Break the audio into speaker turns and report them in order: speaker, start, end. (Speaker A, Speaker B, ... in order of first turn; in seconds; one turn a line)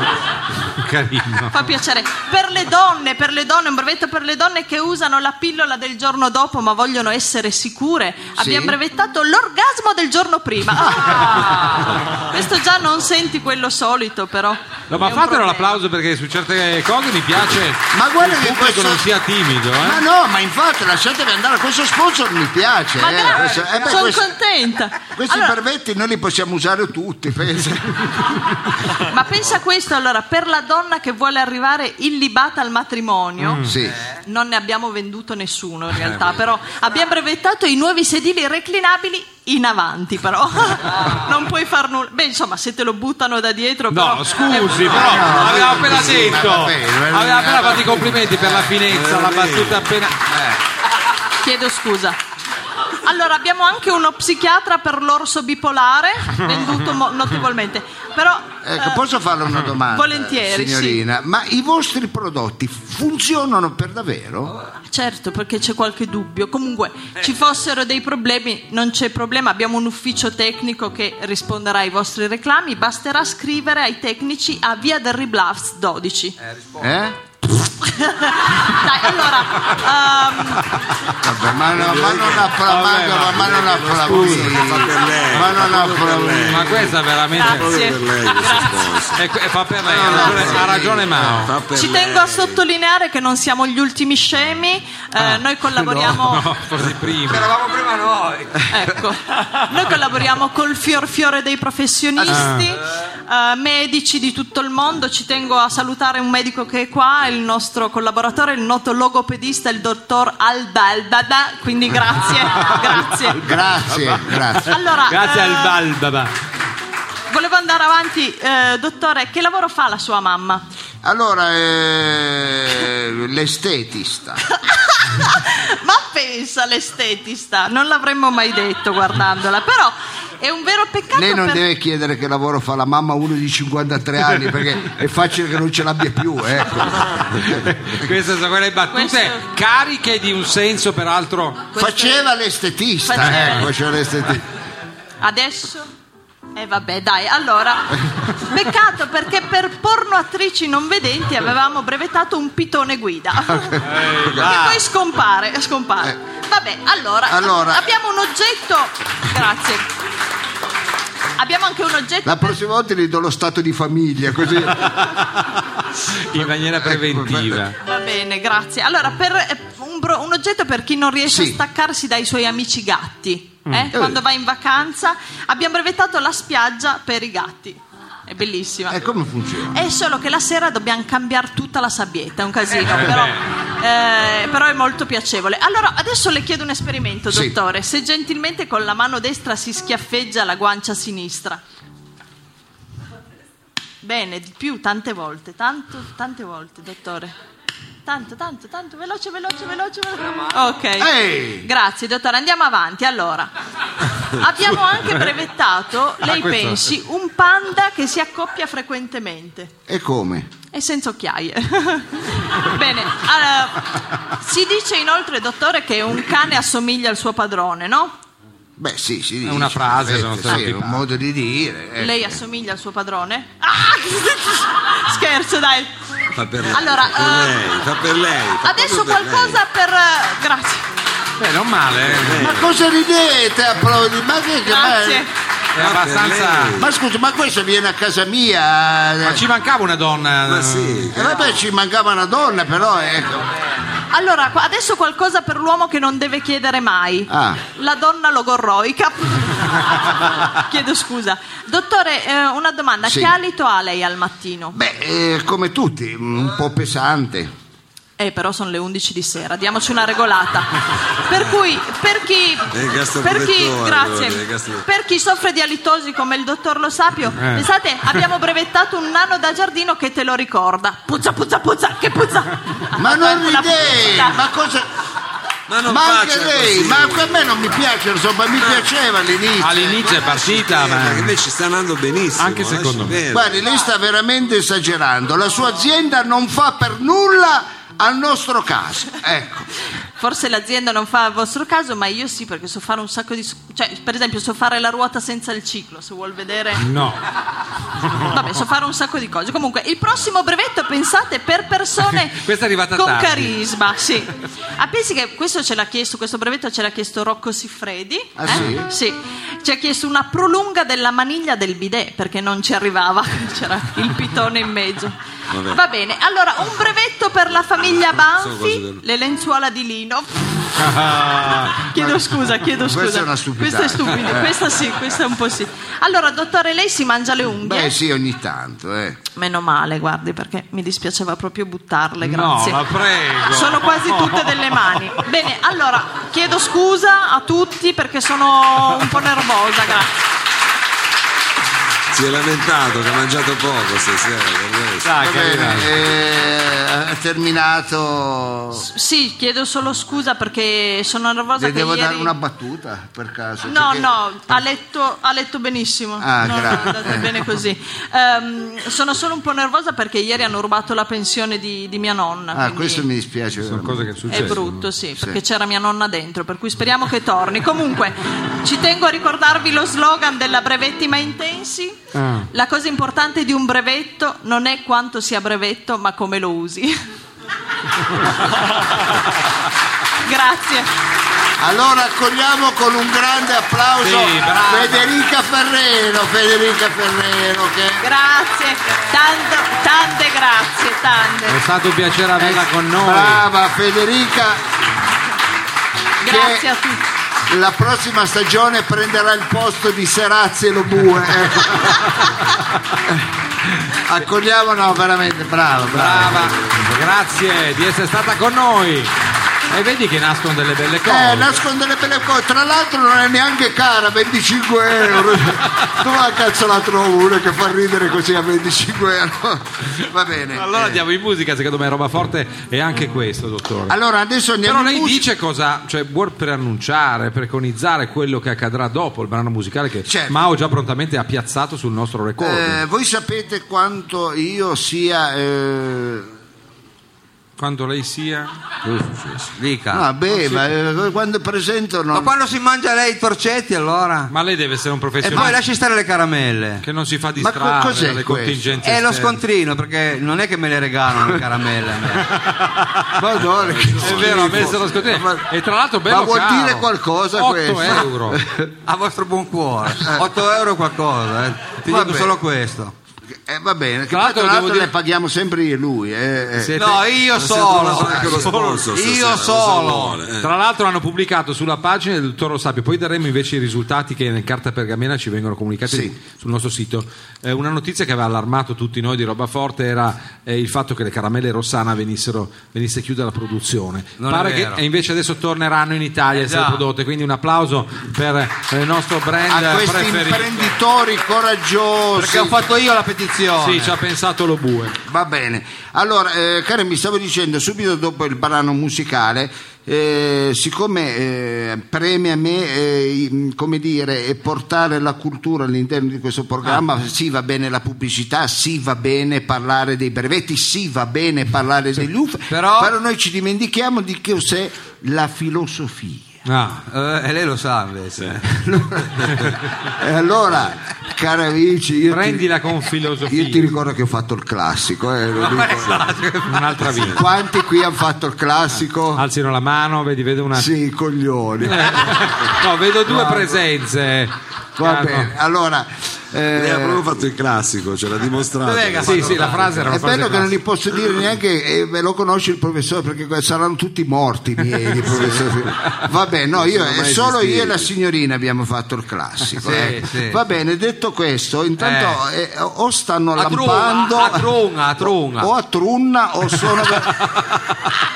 Speaker A: 0.7-1.6
Speaker B: 1.5-15.8
Speaker C: 8.3-8.8
Speaker A: 14.9-20.0
Speaker C: 17.9-19.1
Speaker C: 19.8-24.3
Speaker B: 23.0-25.5
Speaker D: 23.2-24.0
Speaker C: 25.1-28.6
Speaker B: 28.9-33.6
Speaker A: 33.4-33.7
Speaker C: 33.6-34.0
Speaker B: 34.2-45.5
Speaker A: 43.9-50.3
Speaker C: 44.8-48.7
Speaker E: 48.8-49.9
Speaker B: 51.4-52.2
Speaker B: 53.0-59.0
Speaker C: 58.6-64.5
Speaker B: 59.8-61.0
Speaker B: 64.9-76.3
Speaker D: 76.4-76.9
Speaker C: 76.8-77.2
Speaker B: 77.8-80.7
Speaker C: 81.2-86.9
Speaker E: 81.7-82.6
Speaker A: 82.5-84.7
Speaker E: 83.2-89.2
Speaker A: 86.5-87.7
Speaker B: 87.3-89.1
Speaker A: 89.1-91.6
Speaker D: 89.8-90.6
Speaker E: 90.0-92.6
Speaker C: 90.1-91.1
Speaker B: 90.1-90.5
Speaker B: 91.7-96.5
Speaker A: 95.2-97.5
Speaker D: 97.3-98.8
Speaker B: 98.7-113.5
Speaker A: 102.3-102.7
Speaker C: 113.2-114.8
Speaker B: 114.6-115.8
Speaker A: 114.7-116.3
Speaker B: 117.3-120.6
Speaker C: 121.0-124.4
Speaker B: 124.5-131.6
Speaker C: 131.1-138.1
Speaker A: 137.4-141.7
Speaker B: 138.9-139.4
Speaker B: 141.7-142.3
Speaker C: 141.8-144.5
Speaker B: 143.0-143.7
Speaker A: 143.2-143.7
Speaker B: 145.2-145.9
Speaker B: 146.6-159.9
Speaker C: 153.6-154.5
Speaker A: 153.8-154.8
Speaker C: 157.3-157.8
Speaker B: 161.4-162.5
Speaker C: 162.2-164.9
Speaker A: 164.8-167.8
Speaker C: 166.8-167.6
Speaker B: 167.8-179.0
Speaker C: 171.2-171.6
Speaker A: 173.7-173.9
Speaker C: 173.9-174.2
Speaker C: 178.9-179.8
Speaker B: 179.7-191.6
Speaker A: 182.9-183.4
Speaker C: 187.3-187.6
Speaker B: 194.0-197.3
Speaker B: 198.0-203.5
Speaker C: 201.0-201.7
Speaker B: 204.2-209.7
Speaker A: 206.2-206.8
Speaker C: 209.9-210.5
Speaker B: 210.7-218.1
Speaker C: 218.8-222.4
Speaker A: 219.4-221.0
Speaker B: 222.0-225.9
Speaker E: 226.3-229.6
Speaker B: 226.7-227.6
Speaker B: 228.6-230.9
Speaker A: 231.4-232.5
Speaker E: 232.0-232.8
Speaker C: 232.3-235.2
Speaker B: 234.6-235.3
Speaker A: 235.7-236.8
Speaker E: 235.8-236.9
Speaker C: 236.8-239.4
Speaker A: 239.2-241.1
Speaker E: 240.5-241.5
Speaker C: 241.1-243.5
Speaker B: 244.1-254.8
Speaker C: 247.3-247.6
Speaker C: 253.0-253.3
Speaker C: 254.7-257.5
Speaker B: 258.2-274.4
Speaker E: 262.7-264.9
Speaker A: 267.4-267.6
Speaker C: 272.9-274.9
Speaker E: 275.7-277.7
Speaker C: 275.8-280.2
Speaker A: 279.6-281.3
Speaker E: 280.0-283.6
Speaker A: 282.4-283.2
Speaker C: 283.3-289.7
Speaker B: 290.2-296.9
Speaker A: 296.8-297.2
Speaker B: 298.1-315.1
Speaker A: 302.3-303.5
Speaker C: 308.4-308.9
Speaker E: 315.5-315.8
Speaker B: 315.7-320.7
Speaker E: 317.8-319.0
Speaker A: 320.8-321.8
Speaker B: 321.8-327.9
Speaker C: 322.8-324.6
Speaker C: 327.6-329.2
Speaker B: 329.4-332.8
Speaker A: 332.2-335.2
Speaker B: 333.4-340.1
Speaker E: 342.1-345.2
Speaker A: 345.0-345.9
Speaker C: 345.2-348.9
Speaker B: 348.8-352.3
Speaker C: 351.6-354.1
Speaker B: 353.6-363.0
Speaker C: 356.2-357.4
Speaker C: 362.5-364.5
Speaker A: 363.6-364.9
Speaker B: 364.3-377.0
Speaker A: 372.1-372.5
Speaker A: 378.2-379.0
Speaker B: 380.2-380.9
Speaker C: 381.6-388.1
Speaker A: 384.0-385.1
Speaker B: 388.0-391.6
Speaker A: 391.5-393.4
Speaker C: 392.4-394.6
Speaker B: 396.2-397.0
Speaker C: 396.2-396.7
Speaker C: 397.5-402.4
Speaker A: 402.0-402.6
Speaker C: 403.1-406.5
Speaker A: 405.9-409.1
Speaker A: 409.7-411.6
Speaker C: 411.0-421.0
Speaker A: 420.5-423.9
Speaker C: 423.9-425.3
Speaker A: 424.6-432.8
Speaker C: 430.1-430.4
Speaker C: 432.4-436.3
Speaker A: 437.6-438.5
Speaker E: 438.8-439.5
Speaker D: 439.6-440.1
Speaker C: 439.9-442.3
Speaker D: 442.1-444.3
Speaker A: 444.3-445.6
Speaker D: 445.2-446.8
Speaker C: 445.3-445.6
Speaker A: 446.8-449.4
Speaker C: 447.4-448.8
Speaker D: 448.8-452.3
Speaker A: 452.2-453.2
Speaker C: 453.1-455.5
Speaker E: 453.6-454.9
Speaker A: 454.0-458.4
Speaker C: 456.1-458.7
Speaker D: 458.6-462.9
Speaker C: 460.0-460.3
Speaker C: 461.9-462.3
Speaker C: 463.4-467.1
Speaker A: 464.1-464.9
Speaker D: 466.6-470.2
Speaker E: 467.3-470.5
Speaker C: 468.1-468.4
Speaker A: 468.4-468.9
Speaker A: 470.4-490.7
Speaker C: 475.9-476.1
Speaker D: 484.2-484.8
Speaker D: 486.3-486.8
Speaker C: 489.5-492.6
Speaker D: 492.1-493.9
Speaker A: 493.6-495.0
Speaker C: 495.1-516.3
Speaker D: 512.5-512.9
Speaker A: 516.4-516.8
Speaker D: 516.9-519.4
Speaker C: 518.6-522.5
Speaker A: 522.1-523.7
Speaker C: 523.2-526.1
Speaker D: 525.4-526.9
Speaker A: 526.4-527.2
Speaker E: 526.9-527.2
Speaker C: 527.0-529.2
Speaker A: 529.1-530.7
Speaker C: 530.5-532.4
Speaker A: 531.6-535.3
Speaker C: 533.1-533.6
Speaker C: 534.8-537.2
Speaker E: 536.5-539.8
Speaker D: 538.6-540.0
Speaker A: 539.0-540.6
Speaker C: 539.9-554.5
Speaker E: 545.1-545.6
Speaker E: 546.5-547.9
Speaker D: 549.6-550.4
Speaker D: 551.8-552.2
Speaker D: 553.4-555.5
Speaker C: 555.0-557.2
Speaker A: 557.2-557.6